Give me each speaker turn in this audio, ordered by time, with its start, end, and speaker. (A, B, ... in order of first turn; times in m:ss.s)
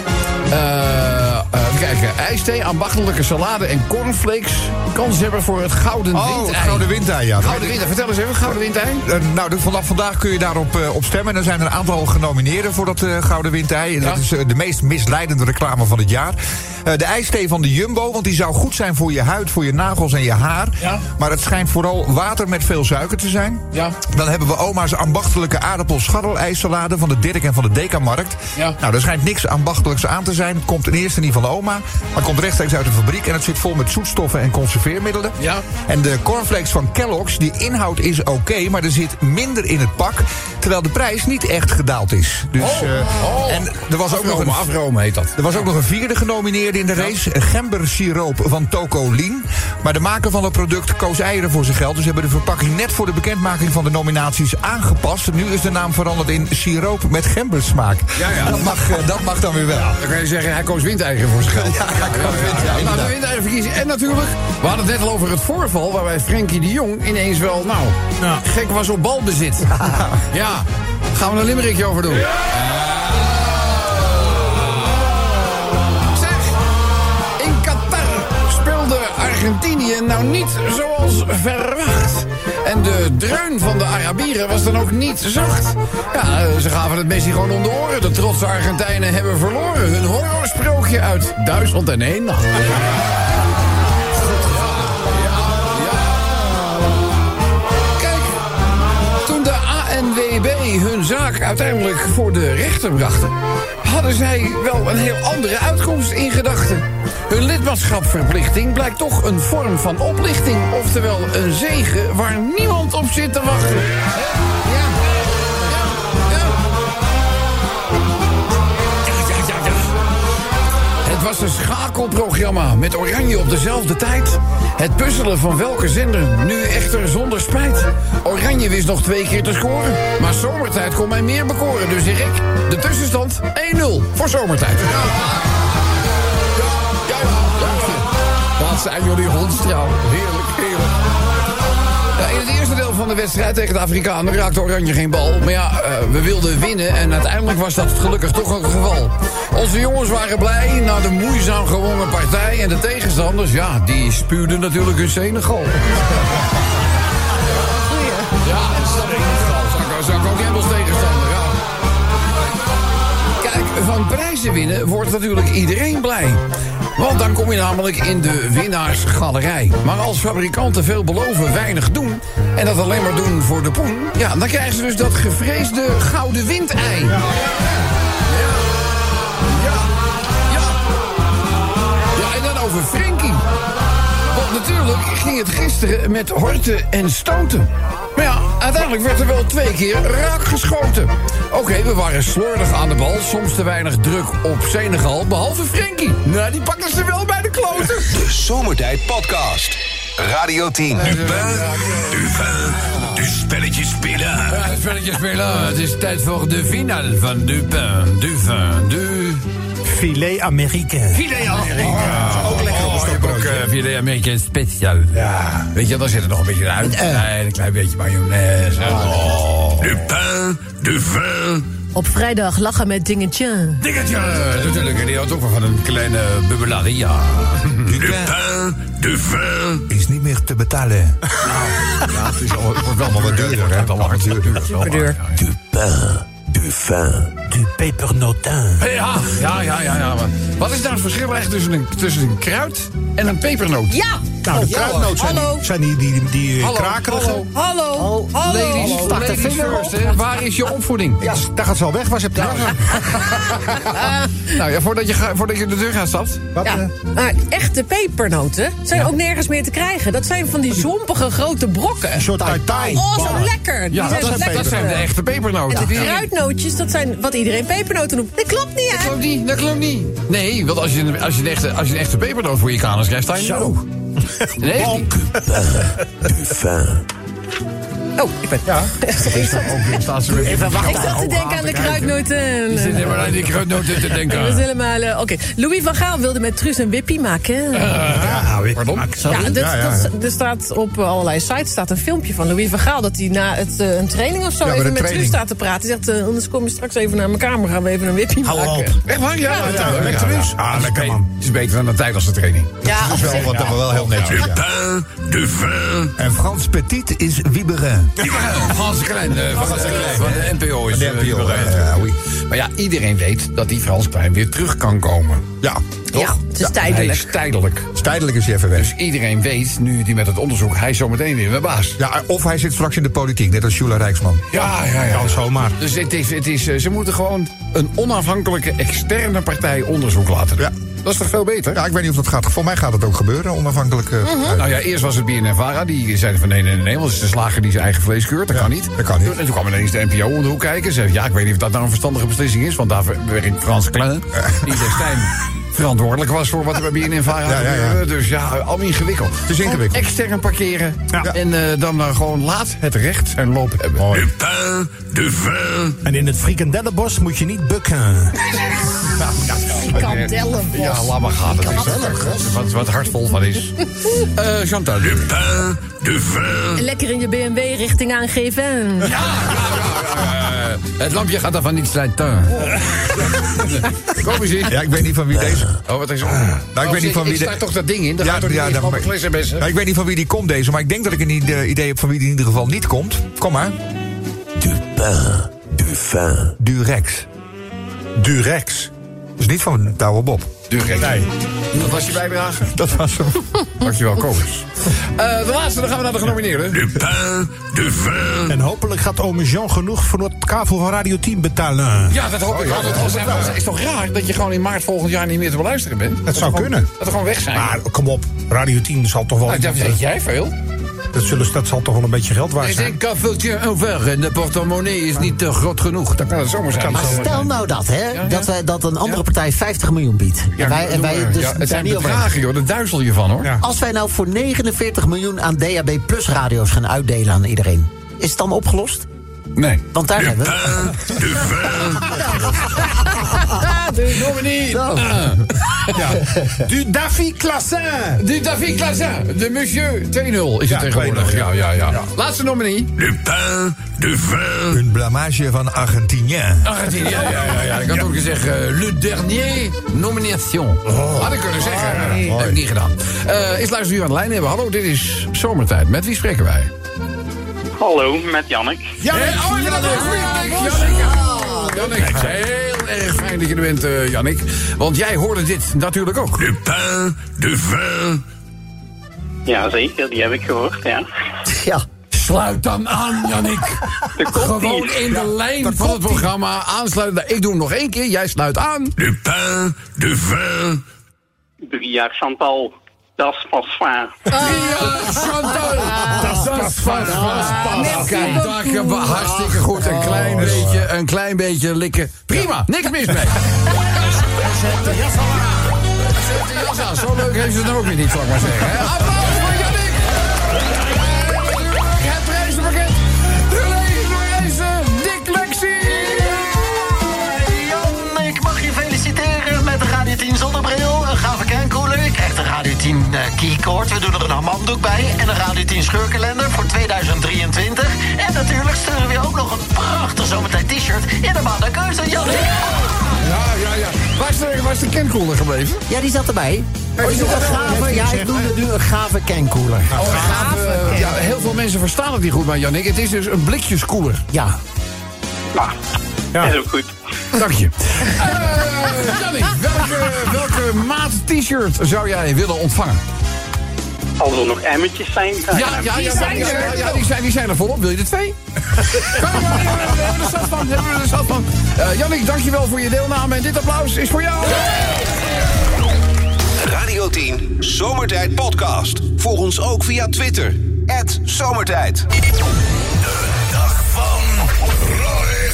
0:00.5-0:09.0 A
0:06.1-0:07.8 B
0:09.0-0:44.7 B
0:35.4-0:35.6 A
0:42.6-0:45.5 A
0:45.4-1:00.0 B
0:58.2-0:58.7 A
1:00.0-1:09.8 A
1:01.5-1:03.1 B
1:10.3-1:13.7 A
1:16.1-1:16.6 A
1:17.4-1:32.8 A
1:34.4-1:36.4 A
1:38.0-1:38.4 A
1:39.2-1:54.6 A
1:54.6-1:54.9 C
1:55.6-1:56.6 A
1:59.0-2:00.0 A
2:01.0-2:15.4 A
2:16.8-2:20.9 A
2:22.2-2:36.0 A
2:37.6-2:38.4 C
2:38.4-2:41.6 A
2:43.4-2:46.4 A
2:47.0-2:57.3 A
2:57.1-2:57.7 D
2:58.3-2:59.9 A
3:00.5-3:00.8 A
3:02.1-3:03.4 A
3:04.3-3:18.2 A
3:18.1-3:21.2 E
3:21.0-3:22.5 A
3:24.2-3:29.4 A
3:29.8-3:33.7 D
3:31.1-3:39.3 A
3:35.1-3:35.7 D
3:39.1-3:39.9 F
3:41.9-3:43.8 C
3:43.8-3:48.0 A
3:47.8-3:48.6 B
3:49.1-3:49.5 G
3:49.9-3:51.2 B
3:51.4-3:55.4 A
3:53.0-3:54.8 B
3:54.8-3:55.2 C
3:55.6-3:57.3 E
3:57.5-3:58.8 D
3:58.8-4:04.0 A
4:03.9-4:05.6 C
4:04.4-4:07.4 D
4:04.5-4:05.1 F
4:06.6-4:07.5 A
4:07.5-4:10.2 C
4:08.0-4:09.5 F
4:08.4-4:11.2 A
4:11.2-4:13.2 D
4:12.3-4:16.5 A
4:13.9-4:14.3 C
4:16.6-4:16.9 D
4:16.6-4:25.1 C
4:22.2-4:25.0 D
4:22.8-4:23.5 F
4:23.9-4:26.3 A
4:25.7-4:29.2 C
4:28.9-4:33.8 A
4:33.3-4:35.8 D
4:34.6-4:35.1 A
4:36.3-4:37.0 E
4:38.2-4:47.9 C
4:39.2-4:42.1 A
4:40.3-4:41.8 D
4:40.4-4:41.4 F
4:42.7-4:44.6 A
4:47.7-4:49.2 A
4:48.0-4:49.5 D
4:49.2-5:00.2 C
4:49.5-4:50.1 B
4:54.6-4:55.4 B
4:58.4-4:59.0 D
4:59.0-5:02.8 A
4:59.5-5:01.3 D
5:02.8-5:03.7 C
5:02.8-5:04.8 B
5:03.2-5:04.4 D
5:05.5-5:05.9 G
5:06.0-5:08.1 B
5:08.2-5:12.0 A
5:09.5-5:12.2 B
5:09.6-5:10.3 D
5:12.5-5:15.4 A
5:16.1-5:17.9 A
5:16.1-5:17.4 C
5:17.9-5:18.9 B
5:18.7-5:22.0 A
5:22.0-5:24.4 B
5:24.5-5:31.8 A
5:25.1-5:25.8 D
5:31.7-5:34.8 B
5:34.2-5:34.6 C
5:34.5-5:54.1 A
5:38.5-5:39.3 B
5:44.4-5:44.8 B
5:47.4-5:48.0 B
5:49.4-5:50.0 B
5:54.0-5:54.3 D
5:55.2-5:55.6 G
5:56.0-5:58.4 D
5:59.2-6:00.0 A
5:59.7-6:01.1 C
6:00.7-6:05.7 A
6:01.6-6:02.2 C
6:06.7-6:09.2 C
6:09.0-6:14.8 A
6:14.6-6:15.7 B
6:15.8-6:19.6 A
6:16.3-6:17.6 B
6:18.2-6:23.7 B
6:24.6-6:26.5 E
6:26.6-6:27.3 B
6:28.2-6:28.9 D
6:29.4-6:30.5 B
6:30.7-6:32.7 A
6:31.0-6:31.3 D
6:32.7-6:33.7 B
6:33.8-6:37.0 A
6:37.8-6:38.2 G
6:38.4-6:43.4 D
6:42.1-6:47.8 A
6:42.5-6:43.5 B
6:46.3-6:46.9 D
6:47.5-6:50.0 D
6:49.4-6:50.5 A
6:51.1-6:53.0 D
6:52.6-6:57.5 A
6:56.7-6:57.5 D
6:56.9-7:02.3 F
6:58.1-6:58.5 A
7:00.5-7:03.5 A
7:03.6-7:09.0 F
7:09.6-7:09.8 A
7:09.9-7:11.6 F
7:13.3-7:16.0 A
7:14.7-7:15.0 F
7:15.9-7:18.2 D
7:18.2-7:22.9 A
7:20.7-7:22.0 D
7:23.2-7:23.6 G
7:24.6-7:26.7 B
7:26.6-7:36.7 A
7:30.9-7:31.2 D
7:31.8-7:32.2 D
7:31.9-7:32.3 C
7:32.2-7:32.6 B
7:37.8-7:38.9 H
7:39.0-7:41.2 D
7:39.0-7:46.6 A
7:40.1-7:41.9 C
7:46.7-7:48.1 G
7:49.4-7:51.0 H
7:51.5-7:51.8 F
7:52.1-7:59.0 A
7:54.2-7:55.1 H
7:55.7-7:56.2 D
7:59.2-8:00.6 G
8:01.6-8:04.4 H
8:04.3-8:05.2 C
8:04.3-8:26.5 A
8:05.9-8:06.3 C
8:06.0-8:08.2 D
8:07.2-8:09.6 C
8:09.8-8:10.7 D
8:14.6-8:15.4 D
8:26.0-8:42.9 F
8:42.7-8:45.8 A
8:45.9-8:50.2 F
8:47.0-8:48.5 D
8:47.0-8:47.8 A
8:49.9-8:51.0 D
8:49.9-8:54.2 A
8:50.2-8:51.1 C
8:54.3-8:54.6 F
8:56.4-8:56.9 H
8:57.3-9:03.0 A
9:04.2-9:06.6 H
9:05.5-9:14.8 A
9:05.7-9:07.0 C
9:16.6-9:22.1 E
9:23.7-9:24.4 E